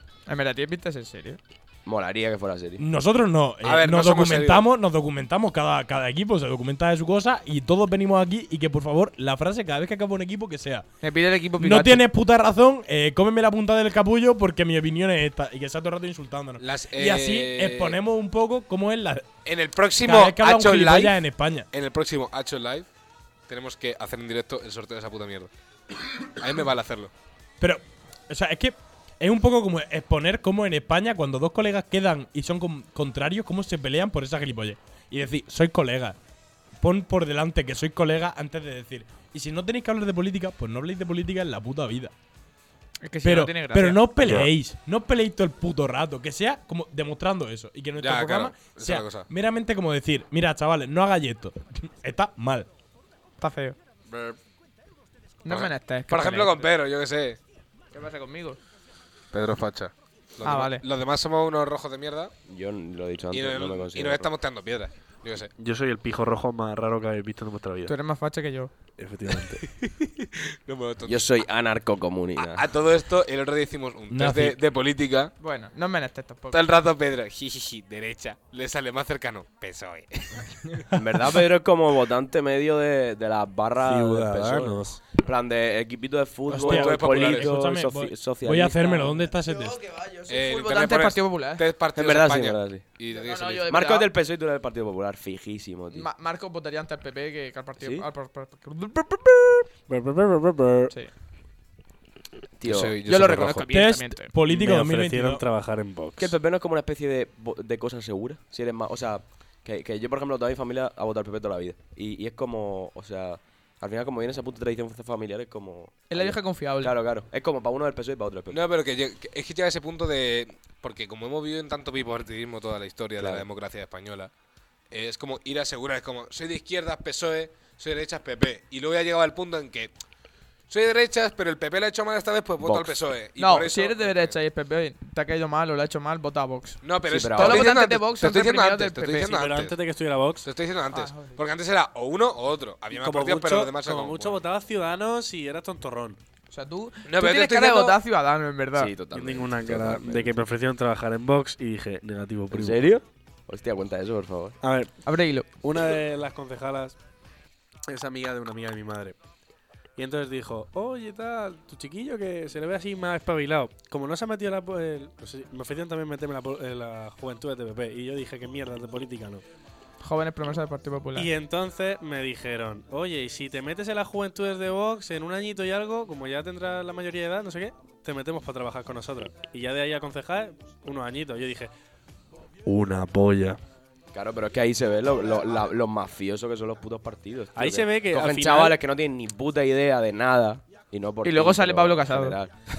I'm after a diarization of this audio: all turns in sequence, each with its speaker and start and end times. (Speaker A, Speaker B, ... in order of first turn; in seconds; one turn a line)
Speaker A: 0.3-1.4
Speaker B: 1.9-2.8
Speaker C: 2.8-10.9
Speaker D: 3.6-4.7
Speaker A: 11.0-12.0
Speaker C: 11.6-19.3
Speaker D: 16.6-18.0
Speaker D: 19.4-22.9
Speaker C: 20.0-21.7
Speaker D: 23.5-25.5
Speaker D: 26.3-27.1
Speaker C: 27.6-36.2
Speaker C: 36.8-42.1
Speaker A: 43.0-44.1
Speaker C: 43.2-52.7
Speaker E: 44.2-44.5
Speaker D: 48.0-49.3
Speaker A: 53.4-53.8
Speaker D: 54.1-54.4
Speaker A: 55.4-56.7
Speaker D: 55.5-57.4
Speaker A: 57.9-58.6
Speaker D: 59.3-62.3
Speaker A: 60.4-60.8
Speaker B: 62.5-64.3
Speaker D: 63.3-65.5
Speaker E: 65.6-67.9
Speaker A: 67.9-68.7
Speaker E: 69.0-69.7
Speaker D: 69.6-71.3
Speaker B: 71.0-72.7
Speaker D: 72.4-75.3
Speaker C: 74.1-74.6
Speaker A: 75.4-76.6
Speaker D: 76.5-80.6
Speaker B: 80.9-89.2
Speaker E: 83.8-85.0
Speaker C: 86.5-89.8
Speaker D: 86.5-87.5
Speaker A: 89.4-91.6
Speaker D: 90.3-93.8
Speaker B: 92.0-92.8
Speaker A: 93.1-94.1
Speaker B: 93.7-96.1
Speaker A: 95.9-99.7
Speaker B: 97.8-98.1
Speaker E: 99.9-100.9
Speaker B: 102.6-103.0
Speaker D: 102.7-103.7
Speaker A: 103.0-104.3
Speaker C: 103.7-105.4
Speaker E: 104.5-106.3
Speaker B: 106.2-118.6
Speaker A: 116.1-117.0
Speaker D: 118.5-124.3
Speaker B: 123.2-123.5
Speaker D: 124.9-129.9
Speaker D: 130.7-134.3
Speaker B: 132.6-133.0
Speaker A: 133.4-136.8
Speaker D: 136.8-139.8
Speaker B: 137.1-137.7
Speaker A: 137.3-139.3
Speaker E: 139.2-140.5
Speaker D: 140.4-144.4
Speaker A: 140.9-141.4
Speaker E: 142.9-146.2
Speaker A: 146.5-148.9
Speaker D: 147.1-148.0
Speaker B: 148.8-150.4
Speaker E: 149.1-152.9
Speaker B: 152.5-154.6
Speaker E: 154.6-154.9
Speaker A: 155.1-155.5
Speaker E: 155.6-156.9
Speaker E: 157.9-159.2
Speaker E: 160.0-169.4
Speaker A: 170.0-171.3
Speaker E: 171.2-181.7
Speaker E: 182.7-183.6
Speaker B: 184.1-192.5
Speaker E: 187.6-188.8
Speaker A: 191.2-192.4